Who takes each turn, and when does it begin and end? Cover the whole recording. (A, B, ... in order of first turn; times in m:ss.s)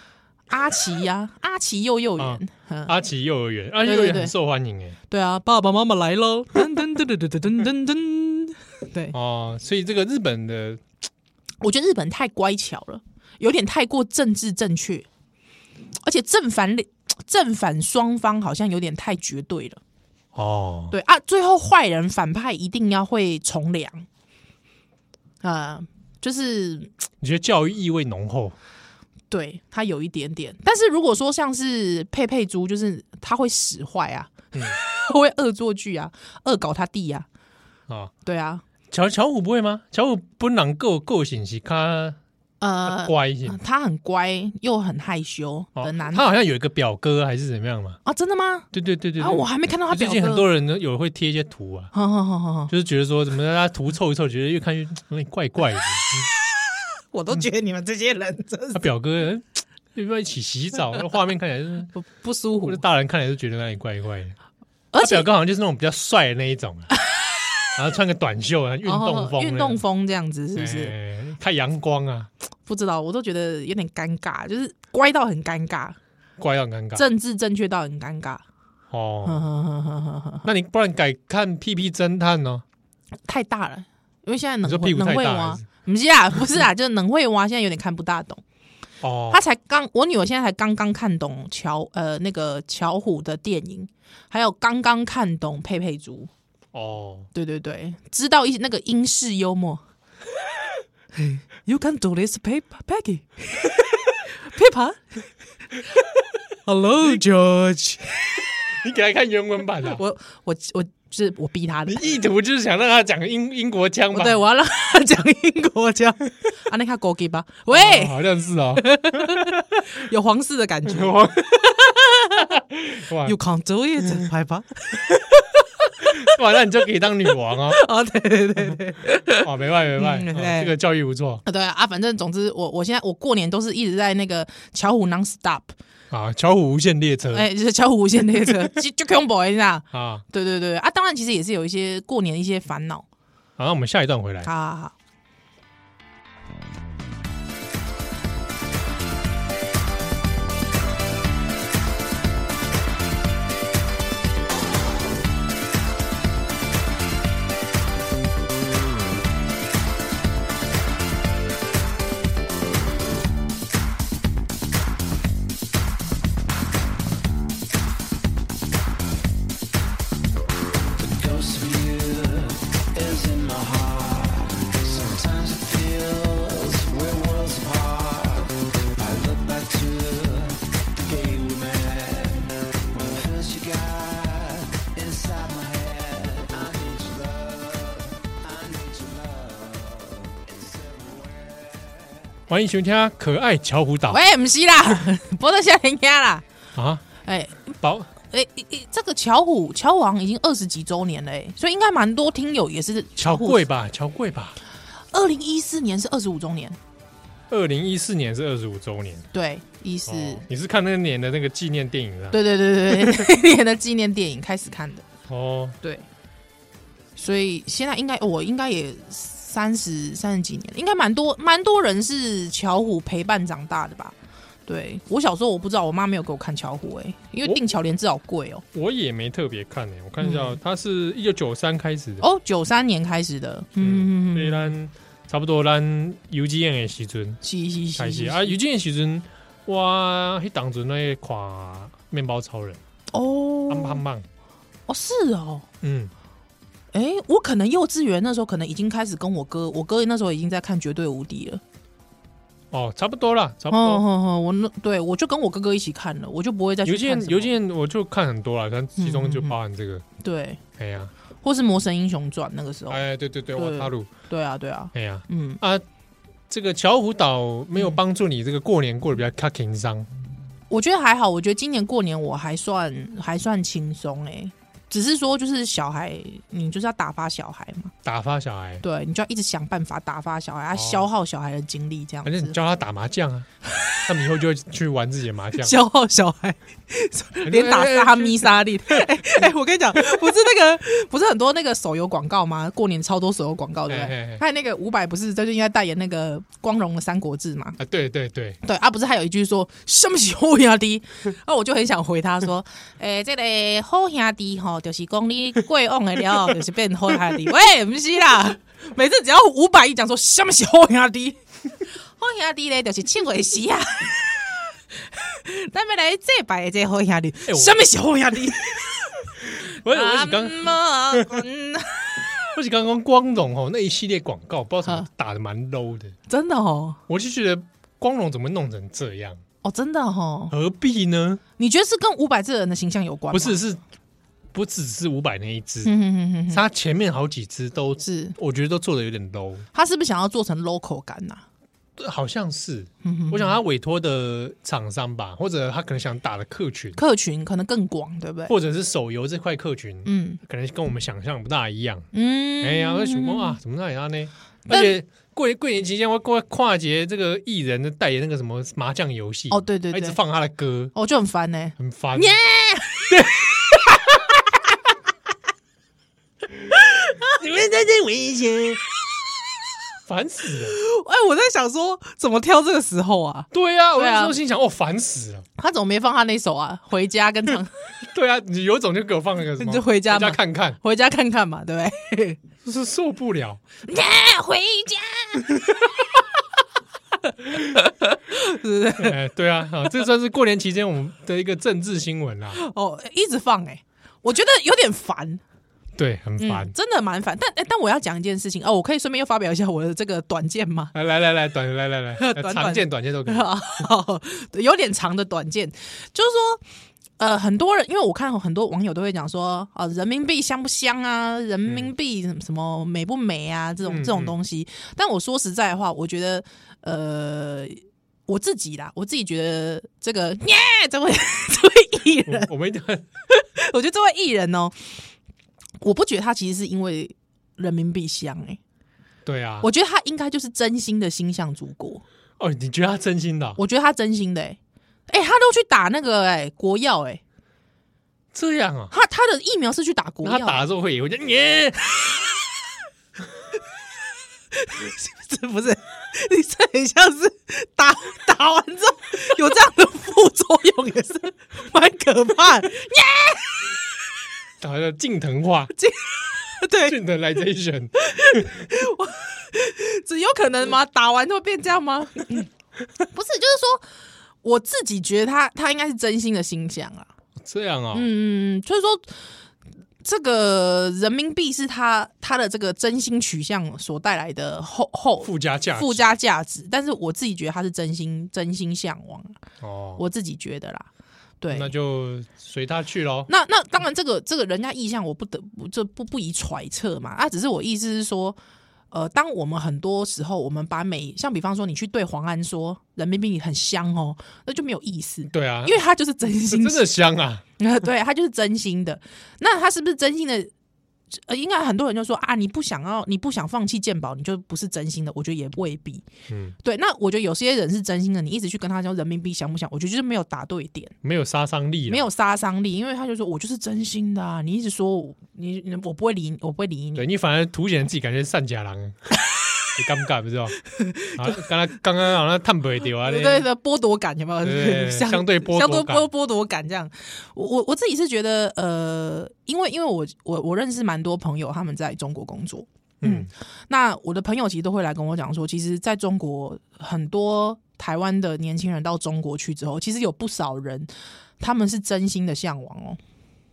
0:00.5-0:03.0 A
0:02.2-0:05.0 B
0:03.8-0:04.3 A
0:05.1-0:09.2 A
0:09.1-0:10.8 B
0:11.6-0:15.1 A
0:16.0-0:19.8 A
0:20.3-0:20.9 B
0:20.9-0:24.1 A
0:25.4-0:26.9 A
0:27.2-0:28.6 B
0:29.3-0:37.3 A
0:38.2-0:38.6 A
0:38.9-0:42.2 B
0:42.6-0:46.2 A
0:42.9-0:43.6 B
0:45.8-0:48.0 B
0:48.0-0:50.4 A
0:48.7-0:51.9 B
0:51.9-0:52.7 A
0:52.7-0:56.3 B
0:57.1-0:58.8 A
0:58.7-1:01.9 B
1:01.9-1:02.8 A
1:02.6-1:04.4 B
1:04.9-1:05.3 A
1:05.0-1:06.9 B
1:07.8-1:09.8 B
1:08.8-1:11.0 A
1:10.6-1:12.3 B
1:12.7-1:16.0 A
1:16.4-1:17.1 B
1:17.0-1:18.4 A
1:18.9-1:19.4 B
1:19.2-1:20.5 A
1:20.4-1:22.6 B
1:23.3-1:28.4 A
1:24.6-1:25.6 B
1:29.0-1:29.4 B
1:29.3-1:36.3 A
1:36.7-1:37.3 B
1:37.3-1:39.8 A
1:41.2-1:45.2 A
1:46.7-1:48.4 A
1:48.8-1:50.0 B
1:49.8-1:52.1 A
1:51.9-1:54.4 B
1:54.1-1:58.2 A
1:57.7-1:59.6 B
1:58.8-2:02.5 A
2:00.9-2:01.6 B
2:02.4-2:03.4 B
2:03.2-2:06.4 A
2:06.2-2:07.8 B
2:07.6-2:09.4 A
2:09.4-2:11.4 B
2:10.0-2:10.7 A
2:11.4-2:15.7 A
2:16.1-2:17.5 B
2:17.3-2:23.1 A
2:19.9-2:20.2 B
2:23.6-2:24.5 B
2:24.4-2:24.9 A
2:51.0-3:12.3 C
3:12.5-3:14.2 B
3:14.1-3:16.4 A
3:16.8-3:17.0 B
3:17.2-3:23.6 A
3:17.8-3:18.1 B
3:23.2-3:24.6 B
3:25.1-3:26.8 A
3:27.5-3:29.3 B
3:29.3-3:30.4 A
3:30.1-3:33.3 B
3:32.3-3:35.1 A
3:35.3-3:35.8 B
3:37.2-3:44.2 A
3:44.7-3:48.6 A
3:48.7-3:52.2 B
3:50.2-3:50.6 A
3:52.2-3:54.7 A
3:53.8-3:57.4 B
3:57.4-3:58.6 A
3:58.0-4:02.8 B
4:03.1-4:04.0 A
4:03.7-4:04.3 B
4:04.9-4:05.7 A
4:05.8-4:06.1 B
4:06.9-4:11.6 A
4:12.7-4:14.0 B
4:13.7-4:17.5 A
4:16.8-4:20.0 B
4:19.0-4:19.6 A
4:20.2-4:20.6 A
4:20.8-4:21.1 B
4:21.4-4:23.0 A
4:22.9-4:24.1 B
4:23.5-4:25.6 A
4:24.9-4:25.8 B
4:26.5-4:30.1 B
4:30.7-4:37.9 A
4:38.0-4:38.8 B
4:38.8-4:42.6 A
4:40.7-4:41.1 B
4:42.2-4:43.5 B
4:44.0-4:45.8 B
4:45.6-4:57.8 A
4:47.4-4:49.4 B
4:53.9-4:54.4 B
4:57.8-4:58.6 B
4:58.6-5:11.4 A
5:12.2-5:14.4 A
5:15.1-5:22.3 A
5:17.5-5:17.8 B
5:19.4-5:21.4 B
5:22.6-5:26.1 B
5:26.3-5:27.0 A
5:27.1-5:29.4 B
5:29.6-5:30.5 A
5:30.5-5:31.4 B
5:31.6-5:33.6 A
5:33.3-5:33.8 B
5:34.5-5:35.9 B
5:35.8-5:36.6 A
5:36.5-5:39.7 B
5:38.0-5:38.4 A
5:39.7-5:41.4 A
5:42.0-5:47.0 B
5:43.0-5:43.6 A
5:47.0-5:48.5 A
5:48.5-5:52.1 B
5:50.0-5:50.4 A
5:52.1-5:53.6 A
5:52.6-6:00.9 B
5:54.7-5:54.9 A
5:59.5-6:00.2 A
6:01.0-6:04.1 A
6:01.8-6:02.4 B
6:03.1-6:03.9 B
6:07.3-6:08.8 B
6:10.1-6:10.8 B
6:10.6-6:14.4 A
6:13.5-6:15.5 B
6:15.6-6:17.7 A
6:18.0-6:20.8 B
6:19.6-6:22.4 A
6:22.6-6:23.6 B
6:23.9-6:25.8 A
6:28.3-6:29.2 A
6:29.0-6:32.6 B
6:32.5-6:35.4 A
6:36.0-6:36.7 B
6:36.4-6:40.9 A
6:40.9-6:43.5 B
6:42.2-6:46.6 A
6:47.2-7:02.5 A
6:53.8-6:54.3 B
7:02.3-7:03.0 B
7:03.3-7:04.9 A
7:05.8-7:08.6 A
7:09.2-7:09.7 B
7:09.6-7:12.0 A
7:12.4-7:13.6 B
7:13.6-7:14.6 A
7:15.1-7:17.2 A
7:18.3-7:18.9 B
7:18.9-7:20.6 A
7:20.2-7:22.3 B
7:24.5-7:33.7 A
7:34.6-7:35.7 B
7:35.7-7:37.0 A
7:36.8-7:38.6 B
7:38.0-7:42.5 A
7:43.1-7:43.8 A
7:44.4-7:47.1 A
7:47.4-7:48.1 B
7:47.9-7:49.2 A
7:50.0-7:59.4 A
7:55.2-7:56.1 B
7:59.6-8:00.0 B
8:00.0-8:00.9 A
8:01.4-8:01.7 A
8:01.5-8:03.3 B
8:03.3-8:08.4 A
8:08.9-8:16.9 A
8:15.3-8:15.8 B
8:16.4-8:17.4 B
8:17.6-8:20.5 A
8:21.1-8:26.1 A
8:26.3-8:26.6 B
8:26.6-8:31.0 A
8:31.0-8:32.1 B
8:31.9-8:37.0 A
8:37.0-8:39.0 B
8:39.8-8:40.6 B
8:40.7-8:41.3 A
8:41.1-8:43.5 B
8:43.0-9:03.0 A
8:44.4-8:46.1 B
8:53.0-8:53.3 B